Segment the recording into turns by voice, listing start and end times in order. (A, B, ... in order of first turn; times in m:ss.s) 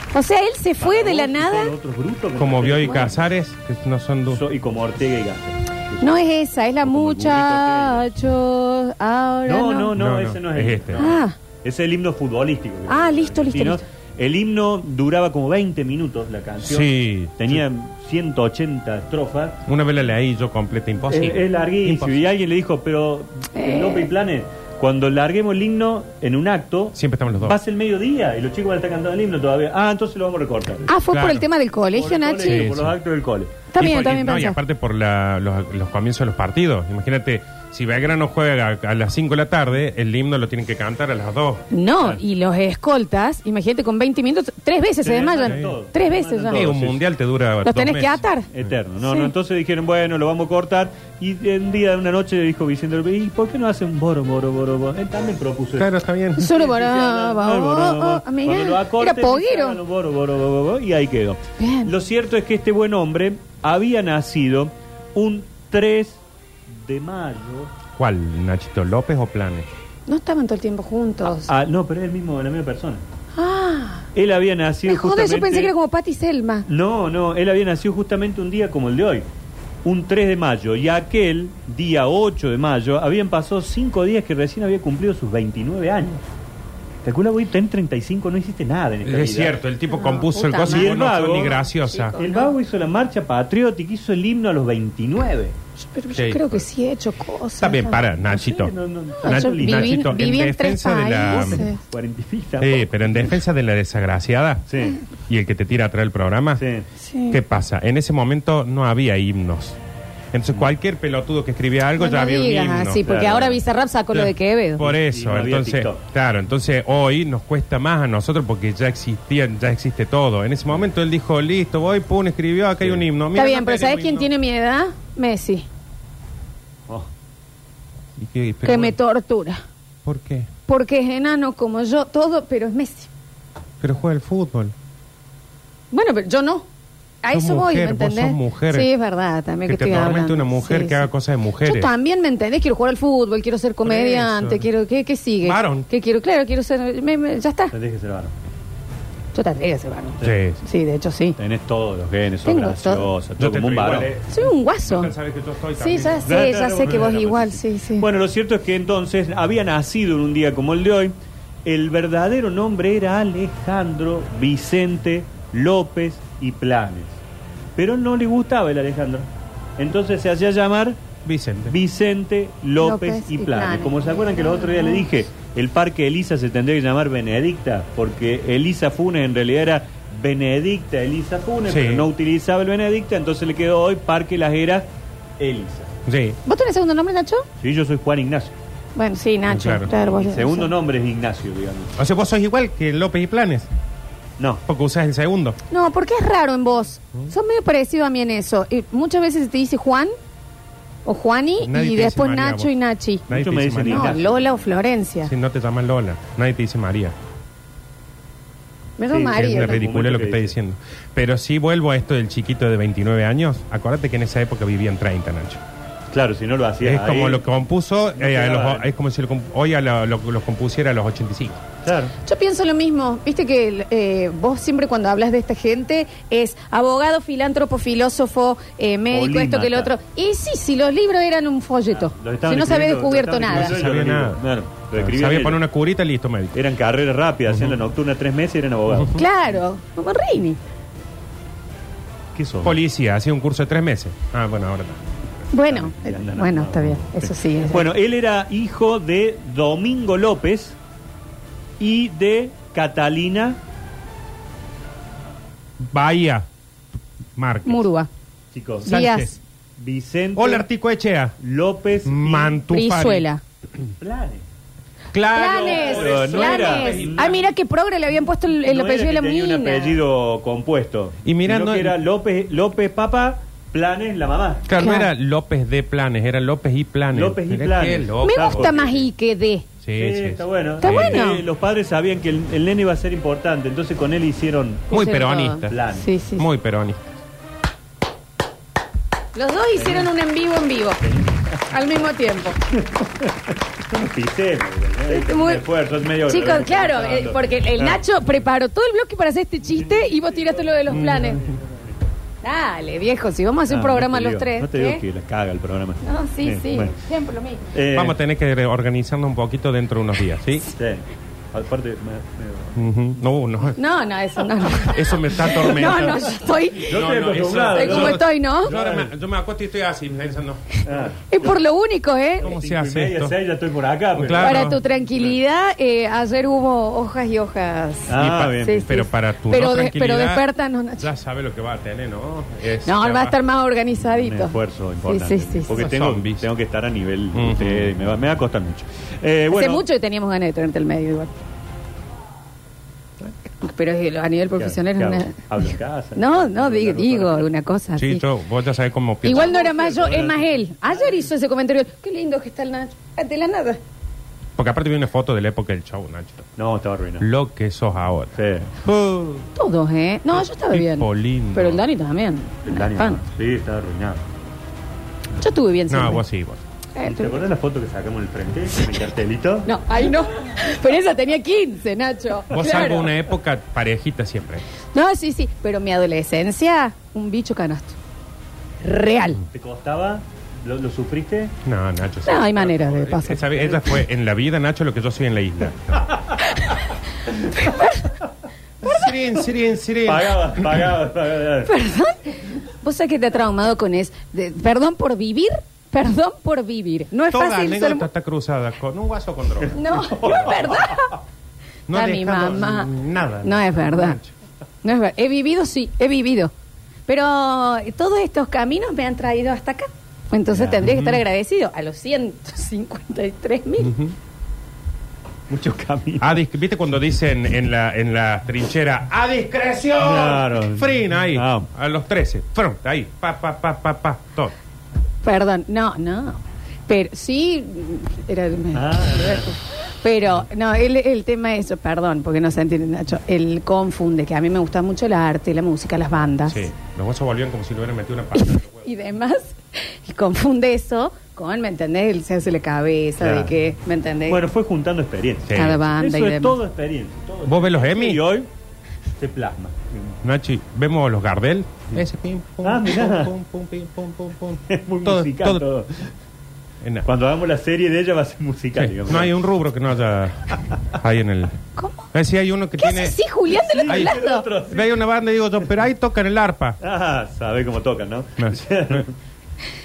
0:00.1-0:01.7 A
0:00.8-0:03.3 B
0:02.4-0:04.4 C
0:04.3-0:06.3 B
0:06.0-0:09.9 A
0:06.8-0:08.1 B
0:09.5-0:19.6 B
0:10.0-0:11.1 C
0:11.0-0:11.4 A
0:12.9-0:13.8 A
0:16.6-0:17.6 C
0:19.7-0:22.3 C
0:21.1-0:30.9 B
0:23.5-0:24.1 A
0:27.0-0:27.6 C
0:30.9-0:32.7 A
0:31.1-0:31.5 C
0:31.9-0:33.7 B
0:32.4-0:33.0 C
0:33.7-0:34.6 A
0:33.8-0:41.6 C
0:41.7-0:46.7 A
0:45.0-0:47.0 B
0:45.5-0:45.8 C
0:46.5-0:48.2 C
0:47.6-0:48.5 A
0:48.5-1:07.7 B
0:49.0-0:49.3 A
0:55.8-0:56.5 C
0:56.4-0:59.8 A
1:01.6-1:01.9 A
1:08.0-1:09.7 C
1:10.1-1:11.5 A
1:11.4-1:13.0 B
1:13.4-1:14.1 A
1:14.2-1:15.7 B
1:14.9-1:16.7 A
1:16.7-1:19.3 B
1:19.8-1:26.2 B
1:27.0-1:29.6 B
1:29.0-1:32.2 C
1:29.9-1:32.5 A
1:30.7-1:31.6 B
1:32.2-1:35.6 B
1:35.8-1:38.0 A
1:36.2-1:36.6 C
1:37.6-1:41.7 C
1:38.3-1:40.2 B
1:39.2-1:41.8 A
1:41.3-1:43.4 B
1:42.6-1:44.6 C
1:44.7-1:45.0 B
1:45.3-1:46.6 C
1:46.6-1:46.8 B
1:47.0-1:47.4 A
1:47.3-1:49.8 C
1:50.3-1:53.4 C
1:52.0-1:54.8 A
1:53.0-1:53.6 B
1:54.1-2:04.3 C
1:54.8-1:56.0 B
2:03.4-2:05.7 A
2:08.2-2:09.0 C
2:08.6-2:09.6 A
2:10.0-2:10.5 C
2:10.7-2:13.1 A
2:13.8-2:14.7 C
2:15.9-2:16.6 A
2:17.2-2:21.1 A
2:17.3-2:18.9 C
2:19.7-2:21.9 C
2:21.6-2:27.7 A
2:23.9-2:24.7 C
2:25.4-2:25.9 C
2:27.7-2:28.3 B
2:29.3-2:31.4 A
2:30.2-2:30.6 C
2:31.4-2:34.1 B
2:32.5-2:33.1 A
2:33.4-2:36.4 C
2:34.3-2:35.1 A
2:35.8-2:38.1 A
2:36.3-2:41.1 B
2:41.6-2:47.2 B
2:47.8-2:49.3 B
2:49.8-2:51.0 B
2:51.3-2:51.8 C
2:51.7-3:04.9 B
2:52.8-2:55.1 A
3:01.7-3:02.1 C
3:05.4-3:05.9 B
3:06.1-3:06.4 C
3:06.5-3:07.4 A
3:07.6-3:08.6 B
3:09.0-3:10.7 A
3:09.5-3:09.9 C
3:10.0-3:12.0 B
3:12.0-3:13.7 C
3:14.7-3:15.6 C
3:15.7-3:20.2 A
3:21.1-3:23.3 A
3:21.6-3:22.7 C
3:23.3-3:24.2 C
3:23.3-3:24.5 B
3:23.8-3:25.3 A
3:25.2-3:27.1 C
3:29.0-3:29.8 A
3:29.1-3:30.5 B
3:29.3-3:35.6 C
3:36.1-3:37.4 B
3:36.8-3:41.6 C
3:38.2-3:38.9 B
3:41.8-3:42.1 B
3:42.2-3:53.8 A
3:49.1-3:49.9 B
3:51.9-3:55.6 B
3:53.5-3:54.4 C
3:55.0-3:56.6 C
3:56.6-3:59.1 B
3:57.5-3:57.8 C
3:58.9-3:59.2 C
3:59.2-4:00.6 A
4:02.4-4:02.8 B
4:02.6-4:05.0 C
4:05.5-4:07.9 A
4:05.7-4:10.8 B
4:11.8-4:13.6 B
4:15.9-4:16.5 C
4:17.4-4:17.9 C
4:17.6-4:18.1 A
4:18.5-4:18.9 B
4:18.9-4:19.3 A
4:18.9-4:19.4 C
4:19.8-4:20.6 B
4:20.4-4:21.3 C
4:21.4-4:22.6 B
4:22.1-4:23.3 C
4:22.7-4:23.4 A
4:24.0-4:24.4 B
4:25.1-4:27.4 C
4:25.3-4:30.0 A
4:25.4-4:27.4 B
4:28.6-4:34.6 B
4:31.2-4:32.0 C
4:34.7-4:38.8 C
4:34.8-4:35.1 A
4:37.1-4:39.0 B
4:38.2-4:39.7 A
4:39.8-4:41.3 C
4:40.0-4:44.9 B
4:40.8-4:41.4 A
4:44.9-4:45.8 C
4:44.9-4:46.5 A
4:45.7-4:46.1 B
4:46.4-4:47.0 C
4:49.3-4:51.0 A
4:49.8-4:50.1 B
4:51.0-4:51.6 B
4:51.7-4:52.6 A
4:52.7-4:58.0 B
4:55.1-4:55.6 A
4:56.3-5:01.4 A
4:59.8-5:02.0 B
5:00.9-5:01.4 C
5:02.4-5:05.0 A
5:03.7-5:07.0 B
5:06.0-5:07.6 A
5:07.7-5:08.2 B
5:07.9-5:10.6 C
5:10.8-5:12.7 B
5:12.8-5:13.8 C
5:13.8-5:17.0 A
5:14.9-5:16.3 C
5:16.9-5:19.1 B
5:16.9-5:20.8 C
5:17.7-5:18.7 A
5:20.8-5:21.5 B
5:21.3-5:22.5 A
5:22.4-5:23.4 C
5:22.4-5:25.3 B
5:24.2-5:24.8 C
5:24.4-5:31.1 A
5:28.1-5:28.9 B
5:28.2-5:30.5 C
5:31.0-5:33.4 C
5:32.8-5:35.8 A
5:34.1-5:39.8 B
5:35.7-5:36.5 C
5:37.3-5:38.0 C
5:39.5-5:41.4 A
5:43.6-5:45.5 A
5:44.6-5:47.5 B
5:46.2-5:48.2 A
5:48.0-5:49.5 C
5:49.2-5:53.8 A
5:49.3-5:51.2 B
5:54.6-5:56.4 C
5:56.6-5:57.3 B
5:57.2-5:59.5 C
5:58.4-5:58.7 B
5:59.6-6:03.2 A
6:00.7-6:01.8 C
6:02.7-6:04.2 B
6:05.4-6:06.2 A
6:05.9-6:06.6 C
6:07.0-6:07.4 A
6:07.0-6:09.7 B
6:09.7-6:13.1 A
6:12.5-6:14.6 C
6:14.9-6:18.0 A
6:18.8-6:19.4 A
6:19.5-6:21.5 B
6:21.7-6:26.1 C
6:22.3-6:23.8 A
6:27.6-6:28.1 A
6:28.8-6:30.7 C
6:30.1-6:31.7 B
6:31.7-6:38.1 A
6:37.3-6:39.8 C
6:39.7-6:41.1 A
6:40.0-6:40.9 B
6:41.9-6:44.3 C
6:41.9-6:42.9 A
6:43.4-6:44.2 A
6:44.8-6:46.5 A
6:47.1-6:53.9 A
6:50.5-6:50.8 B
6:50.8-6:51.2 C
6:53.8-6:54.1 C
6:55.5-6:56.4 B
6:56.2-7:04.5 C
7:00.0-7:01.7 B
7:05.2-7:16.7 A
7:08.7-7:09.5 B
7:16.5-7:19.0 C
7:18.4-7:24.4 A
7:23.2-7:23.5 B
7:24.3-7:28.5 B
7:25.5-7:25.8 C
7:25.5-7:26.6 A
7:27.5-7:28.2 C
7:29.2-7:30.2 B
7:30.2-7:35.6 C
7:32.6-7:33.3 B
7:34.7-7:36.1 B
7:37.1-7:39.3 B
7:38.8-7:41.6 C
7:41.8-7:42.1 A
7:42.1-7:43.2 C
7:42.8-7:44.4 A
7:43.5-7:44.9 B
7:43.9-7:46.8 C
7:46.8-7:49.1 B
7:48.4-7:49.0 C